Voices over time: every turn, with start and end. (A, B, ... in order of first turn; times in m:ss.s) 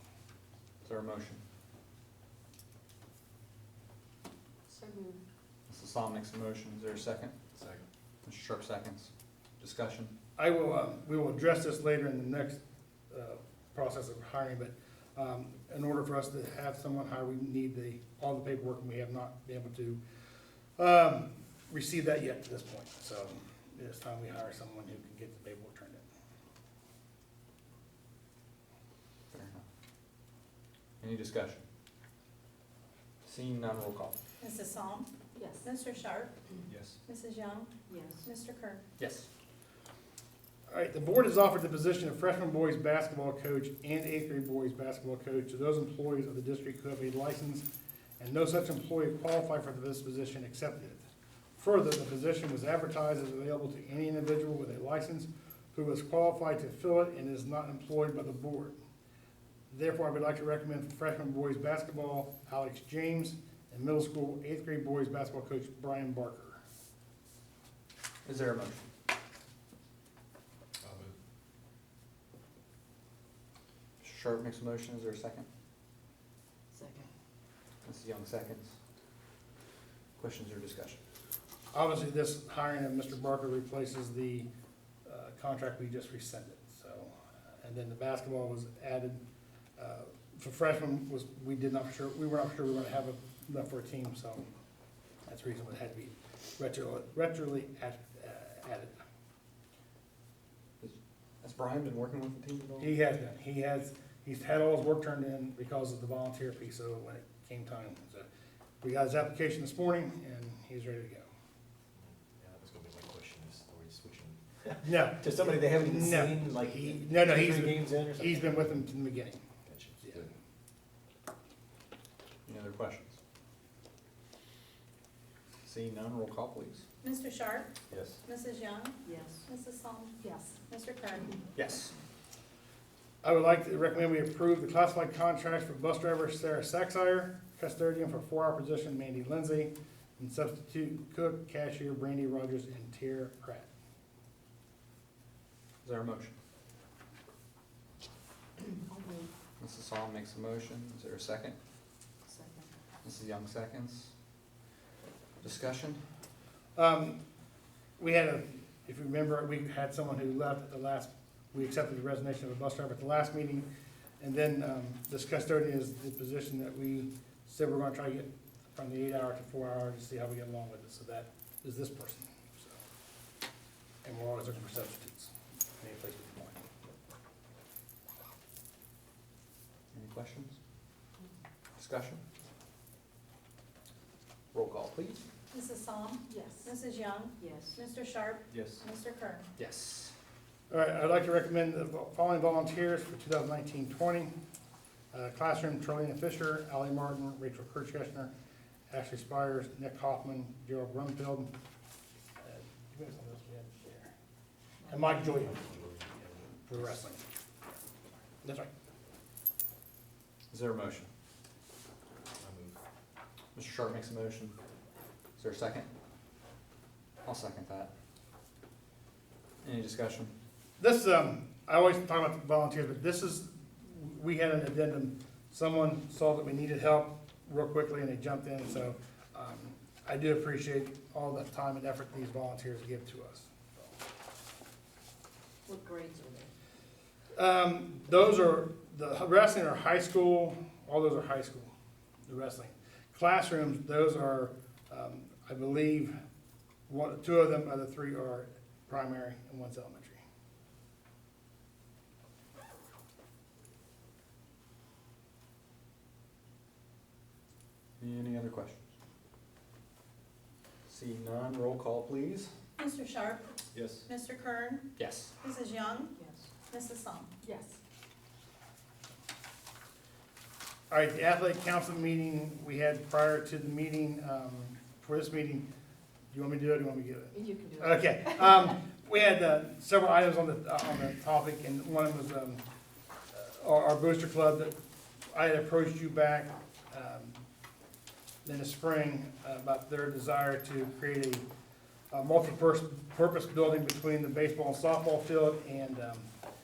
0:00.8-0:01.4 A
0:04.7-0:05.2 B
0:05.7-0:07.3 A
0:07.6-0:07.9 C
0:08.2-0:10.1 A
0:10.4-0:20.0 D
0:20.8-0:26.0 D
0:29.3-0:29.6 A
0:31.0-0:31.6 A
0:33.2-0:34.2 A
0:34.4-0:35.1 E
0:35.4-0:35.7 B
0:35.6-0:36.3 E
0:36.7-0:36.9 C
0:37.1-0:38.8 E
0:37.9-0:38.3 B
0:39.0-0:39.3 A
0:40.7-0:47.7 D
0:48.2-0:51.0 D
0:51.6-0:58.8 D
0:59.7-1:06.6 D
1:08.2-1:08.9 A
1:10.8-1:11.1 C
1:14.0-1:15.5 A
1:16.7-1:17.1 B
1:17.8-1:18.7 A
1:20.2-1:21.0 A
1:21.7-1:24.5 D
1:25.0-1:29.2 D
1:29.8-1:34.5 D
1:35.3-1:39.0 D
1:40.8-1:42.9 A
1:42.8-1:48.3 D
1:48.8-1:51.3 D
1:52.0-1:58.8 C
1:54.8-1:59.4 D
1:59.7-2:00.3 C
2:02.5-2:03.2 A
2:05.6-2:06.8 A
2:07.0-2:07.7 E
2:07.9-2:08.2 C
2:08.2-2:11.4 E
2:09.0-2:09.4 B
2:10.2-2:10.6 B
2:11.6-2:11.9 A
2:13.2-2:23.7 D
2:25.8-2:26.4 A
2:28.9-2:29.3 B
2:29.6-2:31.6 A
2:32.3-2:32.7 B
2:33.0-2:34.1 A
2:35.4-2:36.0 A
2:36.8-2:37.2 D
2:38.0-2:43.7 D
2:44.2-2:52.8 D
2:54.0-2:56.6 D
2:59.9-3:00.6 A
3:01.8-3:02.2 A
3:04.5-3:05.2 A
3:05.5-3:09.5 E
3:06.3-3:06.7 B
3:07.4-3:07.8 B
3:08.5-3:08.8 C
3:09.6-3:10.1 A
3:10.7-3:14.3 D
3:15.1-3:18.3 D
3:18.9-3:21.5 D
3:22.4-3:24.1 D
3:24.9-3:25.6 D
3:25.4-3:26.7 C
3:26.7-3:27.2 D
3:28.4-3:28.7 D
3:30.5-3:31.1 A
3:32.4-3:32.8 C
3:33.6-3:34.6 A
3:35.4-3:35.9 A
3:37.2-3:37.9 A
3:39.6-3:40.3 A
3:40.8-3:53.9 D
3:55.7-3:56.5 B
3:57.3-4:01.7 D
4:02.3-4:06.1 D
4:06.9-4:10.2 D
4:18.0-4:18.8 A
4:20.9-4:22.5 A
4:22.8-4:24.9 E
4:23.7-4:24.0 C
4:25.0-4:25.3 A
4:25.4-4:26.2 E
4:26.2-4:26.5 B
4:26.7-4:27.3 E
4:27.4-4:27.8 B
4:30.9-4:35.7 D
4:36.3-4:42.6 D
4:37.3-4:38.5 B
4:43.3-4:44.8 D
4:45.3-4:47.4 D
4:48.4-4:51.4 D
4:52.1-4:56.3 D